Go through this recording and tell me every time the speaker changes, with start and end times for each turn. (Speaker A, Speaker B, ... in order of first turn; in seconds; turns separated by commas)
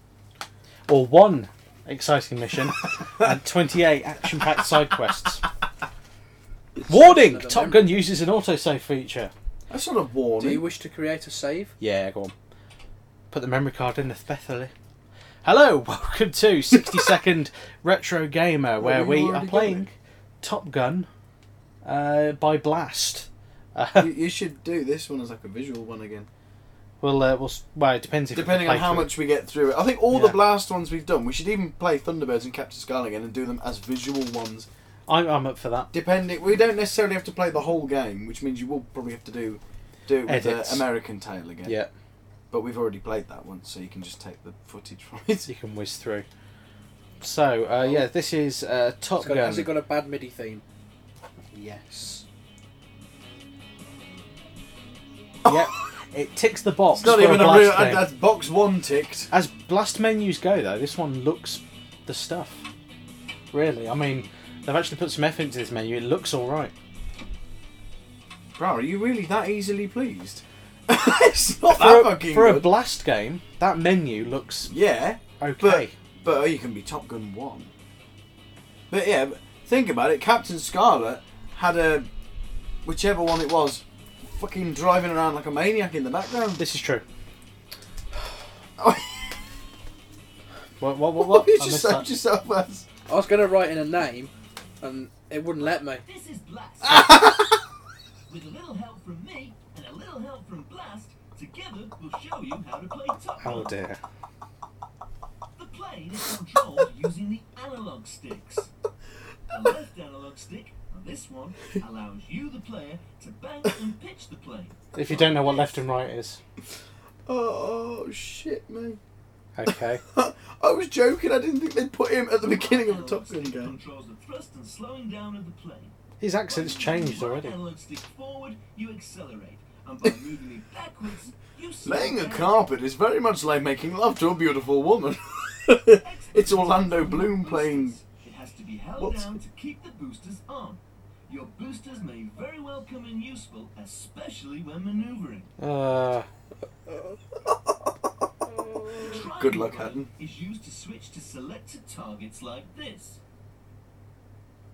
Speaker A: 0.9-5.4, Speaker B: 6.8-8.1, Speaker A: 6.9-9.3, Speaker C: 9.7-10.7, Speaker B: 10.4-11.7, Speaker A: 11.8-12.3, Speaker A: 13.3-14.7, Speaker A: 15.4-21.1, Speaker C: 18.8-19.9, Speaker A: 21.8-24.1, Speaker C: 24.0-26.3, Speaker A: 27.0-29.1, Speaker C: 28.3-34.7, Speaker A: 30.1-30.4, Speaker A: 35.1-35.9, Speaker C: 35.9-41.8, Speaker A: 40.2-40.9, Speaker A: 41.6-41.9, Speaker C: 42.5-45.5, Speaker A: 45.5-46.2, Speaker A: 47.2-49.7, Speaker B: 49.2-50.6, Speaker B: 51.5-52.2, Speaker C: 55.4-55.7, Speaker A: 55.5-58.1, Speaker C: 57.0-59.3, Speaker A: 59.3-62.6, Speaker A: 63.5-66.7, Speaker C: 68.6-72.7, Speaker A: 71.6-74.7, Speaker C: 74.7-77.7, Speaker A: 75.4-75.9, Speaker C: 78.9-82.1, Speaker C: 82.8-86.6, Speaker A: 86.6-87.0, Speaker C: 88.8-89.3, Speaker A: 90.8-92.1, Speaker C: 91.2-92.8, Speaker B: 93.1-96.0, Speaker D: 95.9-97.1, Speaker C: 96.8-97.5, Speaker D: 98.3-103.7, Speaker A: 103.4-104.0, Speaker D: 105.5-108.7, Speaker D: 109.5-115.8, Speaker A: 114.9-116.4, Speaker C: 115.0-115.3, Speaker C: 117.2-119.0, Speaker A: 119.6-120.0, Speaker C: 119.7-123.8, Speaker D: 122.4-125.9, Speaker A: 126.2-127.5, Speaker D: 126.5-132.6, Speaker C: 131.8-138.0, Speaker D: 135.9-145.5, Speaker C: 139.0-139.3, Speaker A: 145.6-146.3, Speaker D: 148.9-153.2, Speaker C: 148.9-150.1